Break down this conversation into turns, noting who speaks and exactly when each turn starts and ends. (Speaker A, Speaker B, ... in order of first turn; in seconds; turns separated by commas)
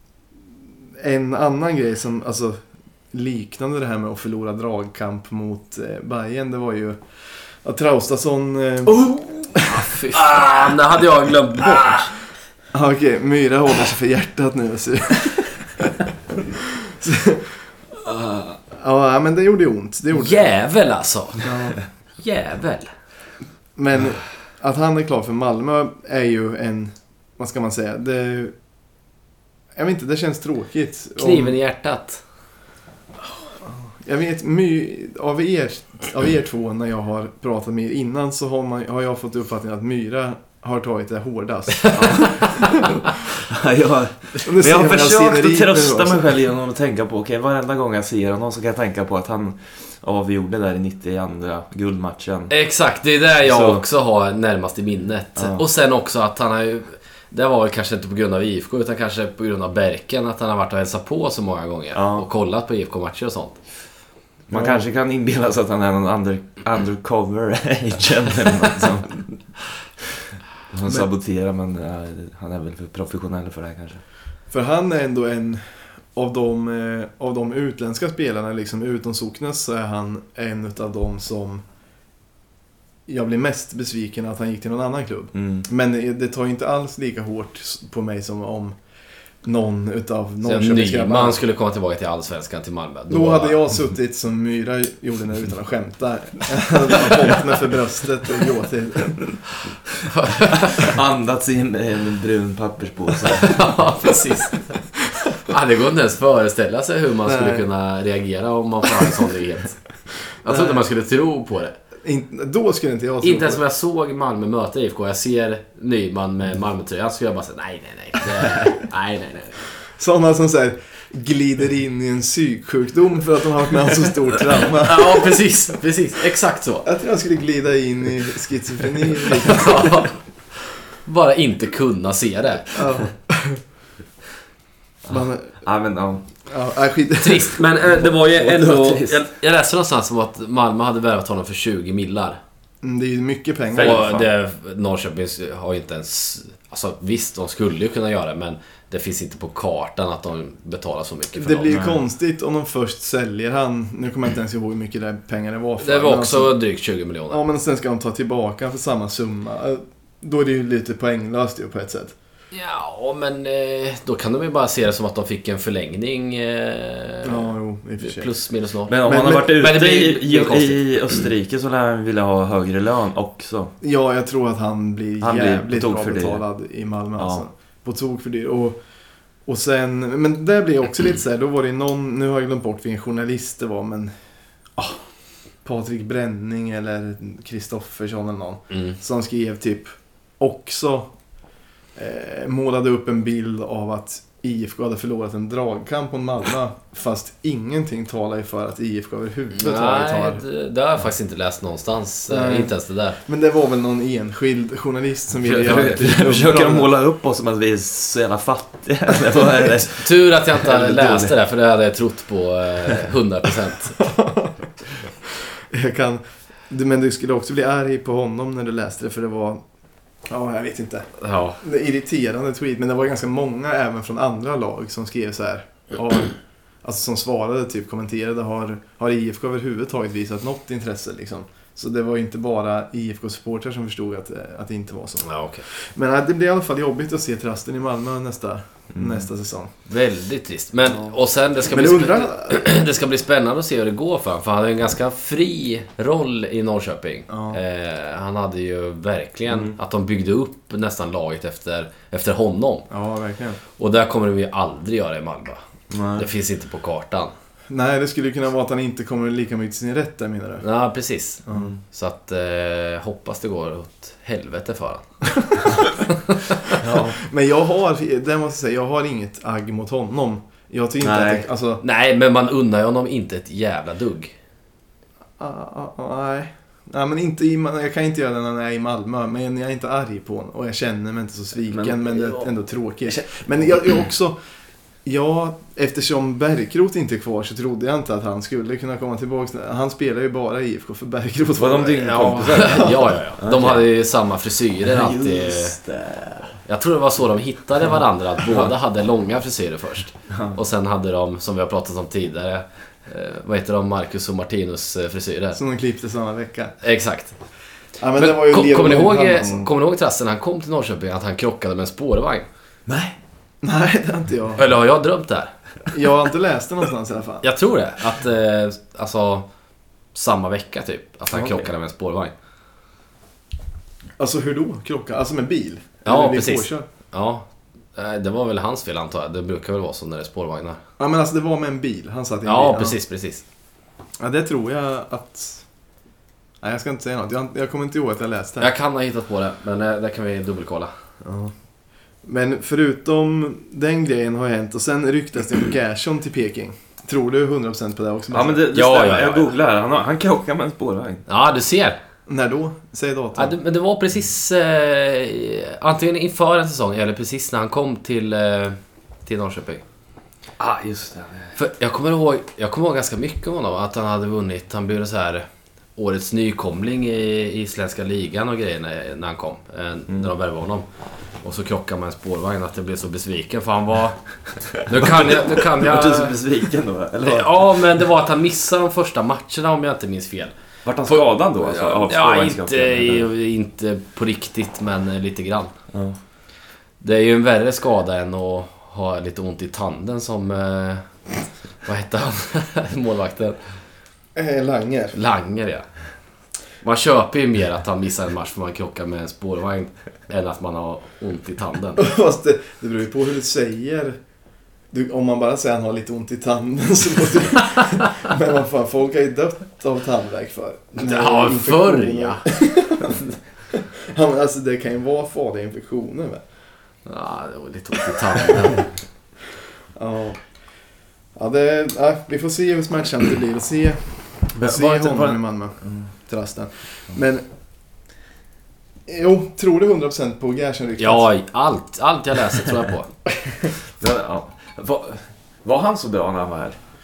Speaker A: 1.0-10.4, Speaker B: 9.6-12.1, Speaker A: 12.7-17.7, Speaker A: 18.7-20.5, Speaker B: 20.1-22.9, Speaker A: 21.4-21.8, Speaker A: 23.8-28.6, Speaker A: 29.8-31.6, Speaker B: 31.2-32.2, Speaker A: 33.6-43.0, Speaker B: 42.0-42.5, Speaker C: 42.0-52.5, Speaker A: 44.4-46.3, Speaker B: 52.5-63.6, Speaker C: 53.4-53.8, Speaker C: 55.4-55.6, Speaker C: 62.0-62.3, Speaker C: 64.5-69.6, Speaker A: 64.5-64.8, Speaker C: 70.7-74.0, Speaker A: 74.5-81.6, Speaker A: 83.1-88.8, Speaker C: 85.3-85.7, Speaker A: 89.4-91.4, Speaker B: 90.5-93.6, Speaker A: 93.1-99.3, Speaker B: 100.1-100.9, Speaker C: 100.6-103.7, Speaker B: 103.3-104.8, Speaker B: 105.4-109.8, Speaker A: 107.2-107.7, Speaker B: 110.4-111.8, Speaker A: 110.5-110.8, Speaker A: 112.0-113.6, Speaker B: 113.2-119.7, Speaker A: 120.0-125.3, Speaker B: 124.8-126.9, Speaker A: 126.8-130.1, Speaker B: 129.3-130.2, Speaker B: 131.0-132.8, Speaker A: 132.7-133.6, Speaker A: 135.1-135.6, Speaker C: 135.1-136.2, Speaker A: 136.5-137.6, Speaker B: 137.2-142.4, Speaker C: 137.9-139.2, Speaker A: 142.8-144.1, Speaker C: 143.7-144.3, Speaker B: 143.8-151.8, Speaker A: 151.4-156.6, Speaker C: 151.7-152.0, Speaker B: 155.8-157.4, Speaker A: 157.3-162.2, Speaker B: 162.5-170.8, Speaker A: 167.2-168.3, Speaker C: 168.9-173.7, Speaker A: 169.0-169.6, Speaker A: 173.8-178.8, Speaker C: 175.2-176.4, Speaker C: 177.2-177.4, Speaker A: 179.5-184.1, Speaker A: 185.6-191.1, Speaker B: 188.7-189.0, Speaker A: 192.0-200.4, Speaker B: 199.6-203.2, Speaker A: 202.3-206.9, Speaker B: 205.4-206.1, Speaker C: 205.6-211.3, Speaker B: 210.0-214.0, Speaker A: 214.0-214.5, Speaker A: 215.3-219.6, Speaker A: 220.3-221.1, Speaker B: 221.2-221.6, Speaker A: 221.6-239.7, Speaker B: 235.2-235.7, Speaker C: 238.9-239.3, Speaker B: 239.9-252.9, Speaker A: 241.6-242.6, Speaker A: 247.3-247.6, Speaker C: 249.5-249.8, Speaker A: 252.9-253.6, Speaker B: 253.8-255.6, Speaker C: 255.9-256.3, Speaker B: 256.2-257.3, Speaker A: 257.7-260.6, Speaker B: 260.6-266.8, Speaker A: 261.5-261.7, Speaker C: 266.8-267.2, Speaker A: 266.9-271.8, Speaker C: 271.0-271.5, Speaker B: 271.8-274.3, Speaker A: 275.4-284.4, Speaker C: 281.7-282.5, Speaker A: 285.1-293.0, Speaker C: 291.6-293.9, Speaker B: 292.0-295.8, Speaker C: 294.8-296.6, Speaker B: 296.6-305.6, Speaker C: 300.3-300.6, Speaker A: 305.6-306.8, Speaker B: 306.8-307.4, Speaker A: 308.0-309.7, Speaker B: 308.2-312.5, Speaker C: 312.9-313.2, Speaker A: 313.6-314.7, Speaker B: 314.6-315.5, Speaker A: 315.9-317.4, Speaker B: 317.4-319.5, Speaker B: 320.1-322.3, Speaker C: 321.3-321.7, Speaker A: 324.2-326.9, Speaker B: 326.1-330.8, Speaker A: 331.0-333.0, Speaker B: 332.4-333.4, Speaker A: 334.2-335.6, Speaker A: 336.6-338.7, Speaker B: 338.6-340.9, Speaker A: 341.2-341.5, Speaker A: 342.2-348.6, Speaker C: 348.3-351.2, Speaker B: 348.7-349.5, Speaker B: 351.3-352.0, Speaker A: 352.3-353.5, Speaker B: 353.4-359.8, Speaker C: 360.6-361.6, Speaker B: 361.6-370.9, Speaker B: 371.4-374.2, Speaker B: 374.9-376.4, Speaker C: 374.9-377.8, Speaker B: 377.2-380.5, Speaker C: 380.9-383.3, Speaker B: 381.1-385.7, Speaker C: 385.9-386.2, Speaker B: 387.0-391.1, Speaker B: 391.8-393.6, Speaker A: 394.4-395.2, Speaker B: 395.1-395.9, Speaker B: 396.8-402.0, Speaker A: 402.0-404.2, Speaker A: 404.9-416.4, Speaker B: 410.9-412.4, Speaker B: 417.1-418.9, Speaker A: 419.9-420.4, Speaker A: 421.4-427.4, Speaker C: 424.6-426.1, Speaker A: 429.1-431.3, Speaker B: 431.0-433.1, Speaker C: 433.7-436.8